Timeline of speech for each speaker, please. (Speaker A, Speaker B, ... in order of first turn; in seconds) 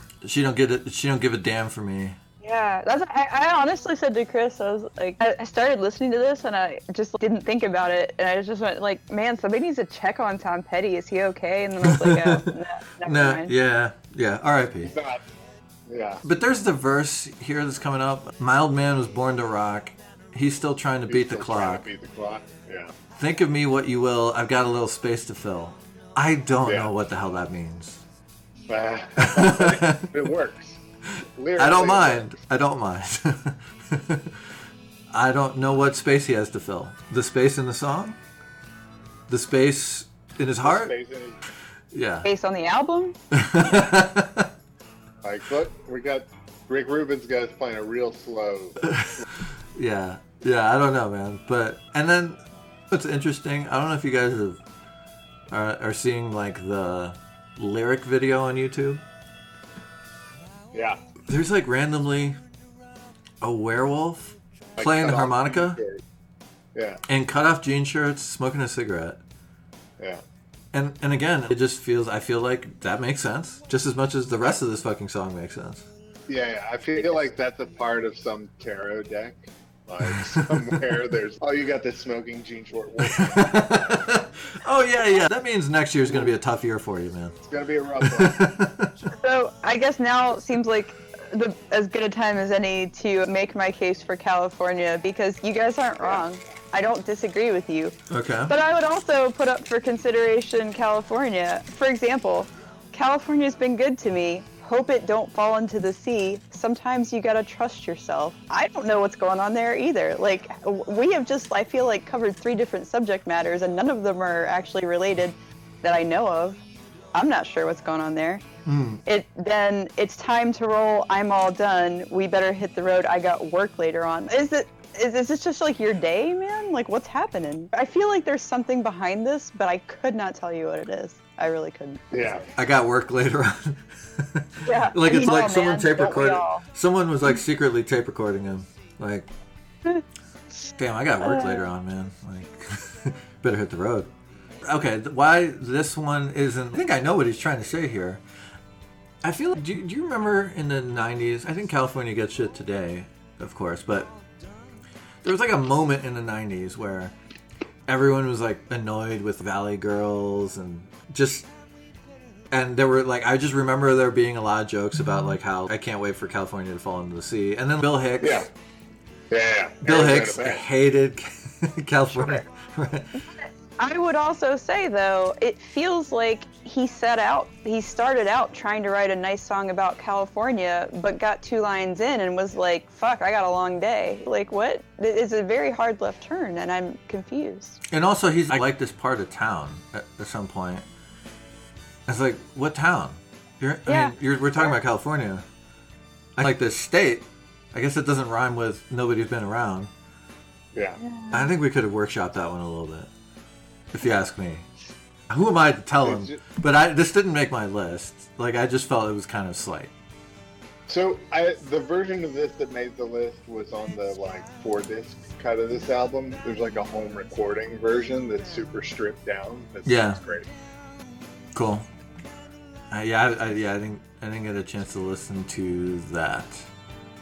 Speaker A: 0.2-2.2, 11.8-14.9, 16.2-21.9, 23.2-28.0, 29.2-30.1, 31.2-34.4, 35.1-38.2, 39.3-40.9, 41.9-42.3, 43.3-44.5, 48.9-49.2, 49.8-54.6, 55.5-59.0, 61.3-62.4, 63.4-65.8, 67.1-69.2, 70.7-75.9, 80.0-81.0, 83.0-87.4, 88.0-88.9, 98.1-98.5, 118.7-119.0, 132.6-139.3, 140.7-144.1, 144.6-148.2, 149.2-154.1, 155.2-157.1, 157.9-161.5, 162.5-168.5, 169.8-173.2, 187.9-190.8, 192.1-195.4, 196.4-199.9, 201.3-203.1, 203.9-204.7, 205.3-209.9, 219.8-220.2, 221.6-221.9, 222.9-226.7
Speaker B: 2.4-13.5, 42.2-43.2, 89.2-98.0, 98.5-116.6, 117.1-118.4, 119.0-132.0, 134.7-136.6, 141.2-141.7, 173.2-187.8, 193.9-194.7, 201.0-201.5
Speaker C: 14.8-15.2, 15.9-16.2, 21.1-22.9, 26.6-26.9, 28.7-30.8, 31.4-32.3, 40.6-41.4, 45.2-48.9, 60.7-61.0, 64.8-66.0, 66.8-67.0, 76.3-84.1, 86.1-86.3, 87.4-88.6, 132.1-132.5, 168.2-168.5, 169.3-170.6, 206.0-206.4, 210.9-220.5